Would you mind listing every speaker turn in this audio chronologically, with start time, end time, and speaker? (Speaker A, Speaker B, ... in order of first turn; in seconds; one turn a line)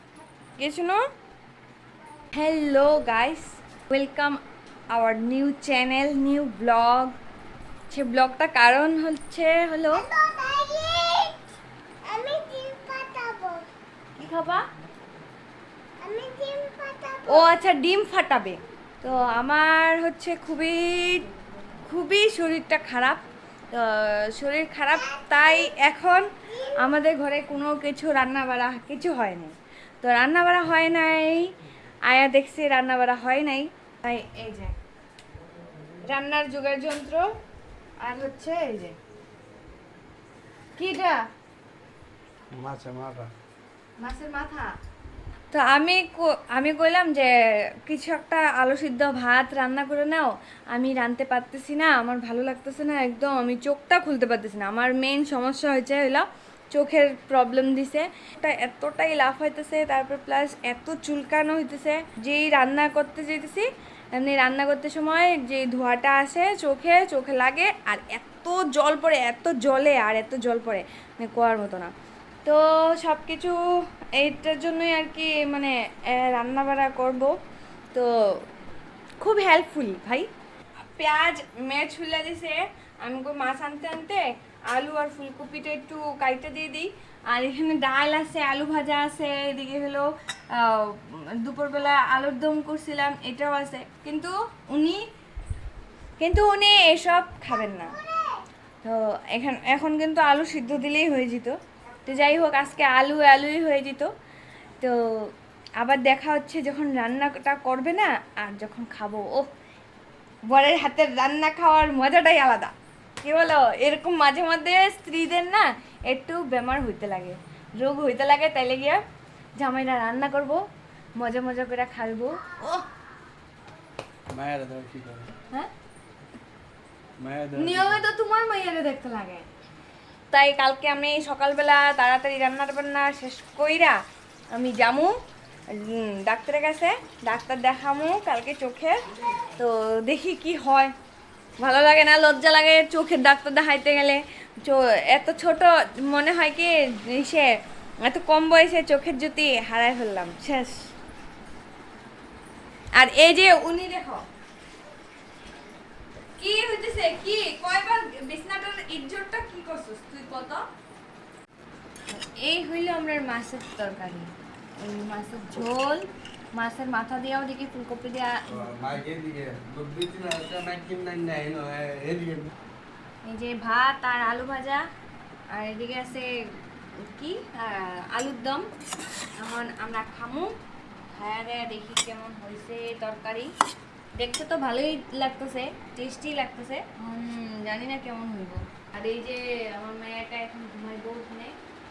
Speaker A: 0.6-1.0
Speaker A: 2.3-4.4
Speaker A: 4.9-7.2
Speaker A: 7.9-10.1
Speaker B: 10.0-11.4
Speaker B: 12.0-13.7
Speaker A: 14.2-14.6
Speaker B: 16.0-17.5
Speaker A: 17.3-21.3
Speaker A: 21.8-31.6
Speaker B: 25.1-25.7
Speaker A: 32.1-34.8
Speaker A: 36.0-37.3
Speaker A: 38.0-39.0
Speaker A: 40.8-41.2
Speaker C: 42.5-43.3
Speaker A: 44.0-44.7
Speaker A: 45.5-71.9
Speaker A: 72.5-77.3
Speaker A: 77.9-78.4
Speaker A: 79.2-80.3
Speaker A: 80.8-95.0
Speaker A: 96.2-98.0
Speaker A: 98.8-104.1
Speaker A: 104.8-109.5
Speaker A: 110.5-119.0
Speaker A: 119.6-120.6
Speaker A: 121.2-122.9
Speaker C: 124.3-125.3
Speaker C: 127.2-128.0
Speaker A: 127.6-129.5
Speaker A: 130.3-135.1
Speaker A: 135.7-139.0
Speaker A: 139.6-140.9
Speaker A: 141.6-150.9
Speaker A: 152.9-154.2
Speaker A: 156.4-160.6
Speaker A: 162.1-168.5
Speaker C: 168.5-172.5
Speaker A: 173.2-174.8
Speaker A: 175.5-178.7
Speaker A: 179.4-180.5
Speaker A: 181.1-183.5
Speaker A: 184.2-191.6